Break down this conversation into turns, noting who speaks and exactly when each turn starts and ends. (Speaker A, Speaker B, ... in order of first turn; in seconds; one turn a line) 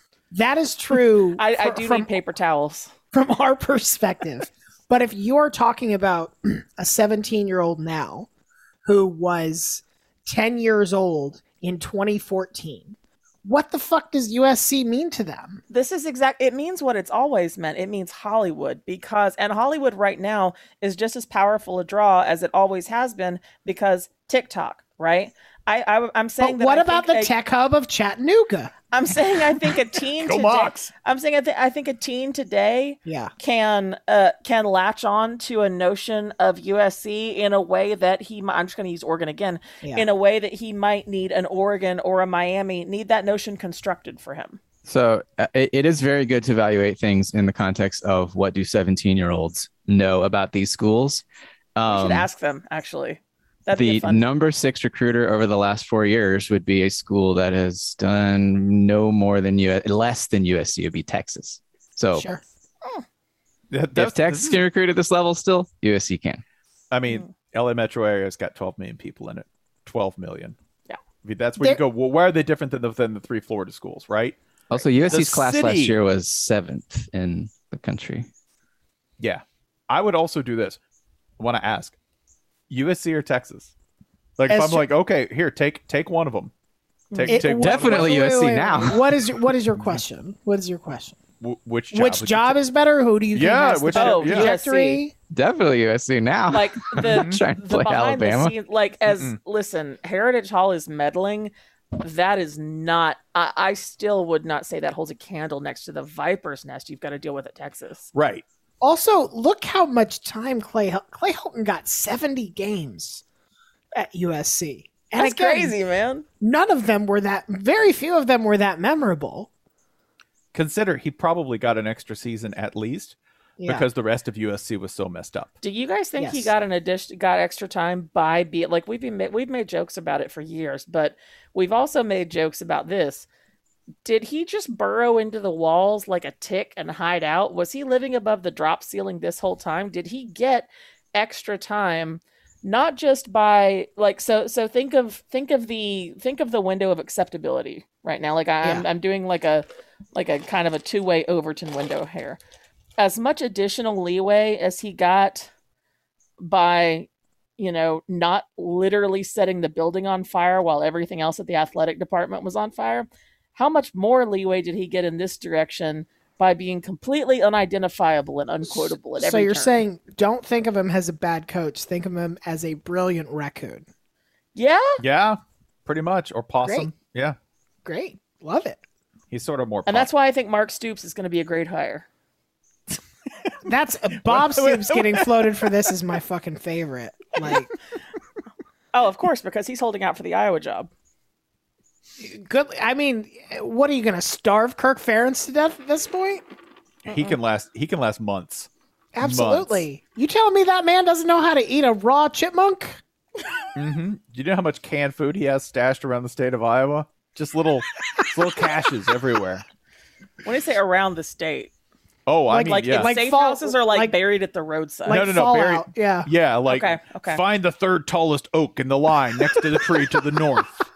Speaker A: 0.3-2.1
Speaker B: 1.4-2.9
Speaker A: 3.1-8.3
Speaker A: 8.8-15.6
Speaker B: 15.7-27.3
Speaker A: 26.4-28.7
Speaker B: 28.9-44.6
Speaker C: 30.2-30.9
Speaker A: 33.1-33.3
Speaker D: 44.9-51.2
Speaker D: 51.8-52.3
Speaker B: 51.9-54.3
Speaker D: 53.7-62.3
Speaker A: 62.1-62.4
Speaker C: 63.7-64.6
Speaker D: 64.0-66.4
Speaker C: 66.9-70.6
Speaker C: 71.2-74.4
Speaker D: 74.7-78.3
Speaker C: 75.1-76.0
Speaker C: 79.2-80.8
Speaker C: 81.4-82.0
Speaker C: 82.7-83.7
Speaker C: 84.4-86.5
Speaker A: 84.5-84.9
Speaker B: 87.1-87.4
Speaker C: 87.1-88.2
Speaker A: 87.3-91.2
Speaker D: 87.5-89.0
Speaker C: 91.4-92.6
Speaker A: 91.9-95.1
Speaker C: 93.3-94.5
Speaker B: 94.0-95.0
Speaker D: 95.3-98.5
Speaker B: 96.5-108.1
Speaker C: 97.0-97.4
Speaker C: 108.2-108.5
Speaker A: 108.8-113.2
Speaker A: 113.9-115.8
Speaker B: 115.2-116.2
Speaker A: 116.4-119.5
Speaker C: 120.5-125.5
Speaker A: 123.6-123.9
Speaker B: 125.6-133.3
Speaker A: 126.2-126.5
Speaker B: 134.0-152.4
Speaker A: 148.6-148.9
Speaker B: 153.0-155.5
Speaker B: 156.4-157.1
Speaker B: 157.6-169.8
Speaker A: 168.7-173.9
Speaker B: 174.6-175.0
Speaker C: 175.0-177.4
Speaker A: 176.6-176.9
Speaker A: 177.8-178.8
Speaker C: 179.3-180.1
Speaker B: 179.9-182.1
Speaker A: 183.7-187.7
Speaker C: 184.2-185.4
Speaker B: 188.9-190.9
Speaker A: 192.2-196.4
Speaker C: 197.1-198.7
Speaker A: 199.1-203.0
Speaker C: 199.2-199.8
Speaker C: 203.8-209.6
Speaker B: 210.4-211.7
Speaker C: 212.3-213.1
Speaker A: 212.5-214.2
Speaker B: 212.7-215.2
Speaker A: 215.1-216.3
Speaker C: 215.1-220.9
Speaker B: 216.7-217.4